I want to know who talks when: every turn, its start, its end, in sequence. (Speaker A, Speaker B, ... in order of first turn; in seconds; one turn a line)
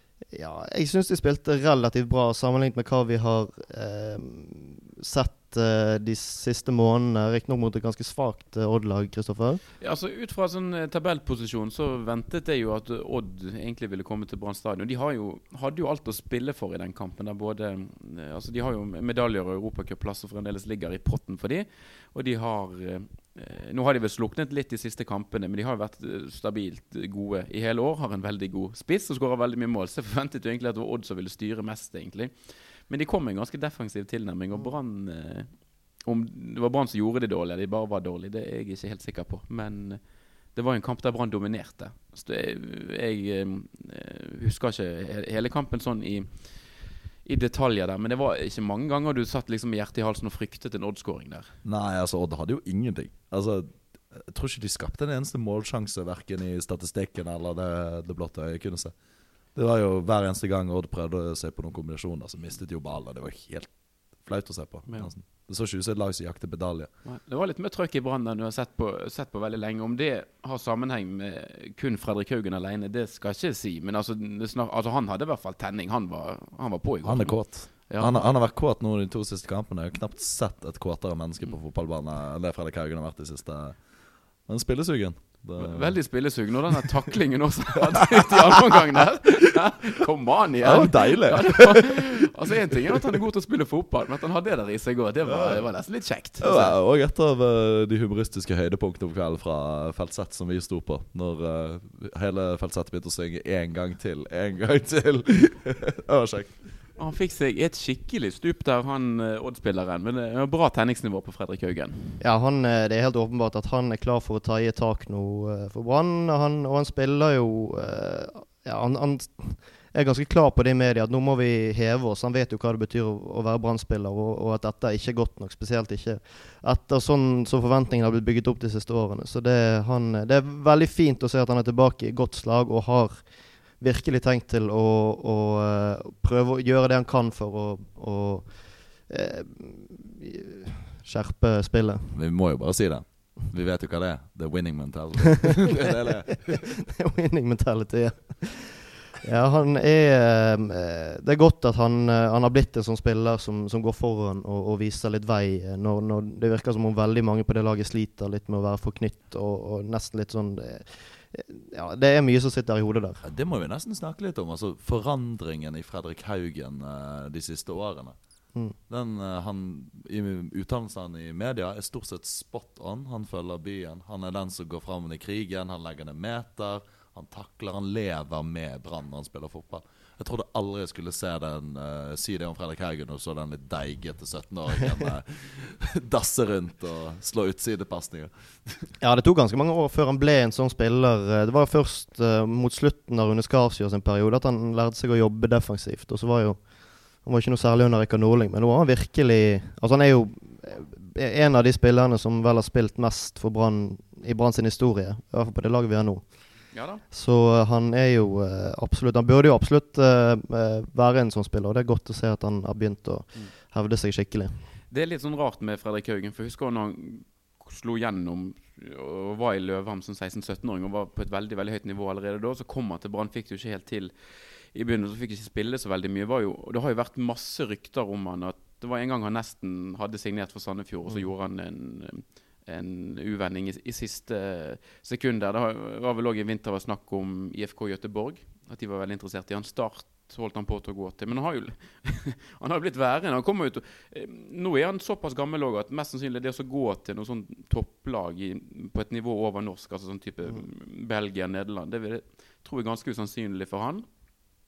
Speaker A: 0.3-9.6
Speaker B: 9.8-51.5
Speaker C: 51.6-58.9
Speaker C: 59.5-66.9
Speaker B: 64.9-65.1
Speaker B: 67.0-78.3
Speaker C: 77.0-86.1
Speaker B: 85.6-96.8
Speaker C: 88.2-89.0
Speaker C: 90.6-92.1
Speaker C: 95.2-95.7
Speaker C: 96.4-106.7
Speaker B: 107.0-112.2
Speaker A: 112.2-142.1
Speaker C: 142.1-146.6
Speaker A: 146.5-163.2
Speaker C: 163.2-168.2
Speaker C: 168.9-188.9
Speaker A: 189.0-214.6
Speaker B: 206.7-207.0
Speaker B: 214.9-224.1
Speaker B: 224.7-254.1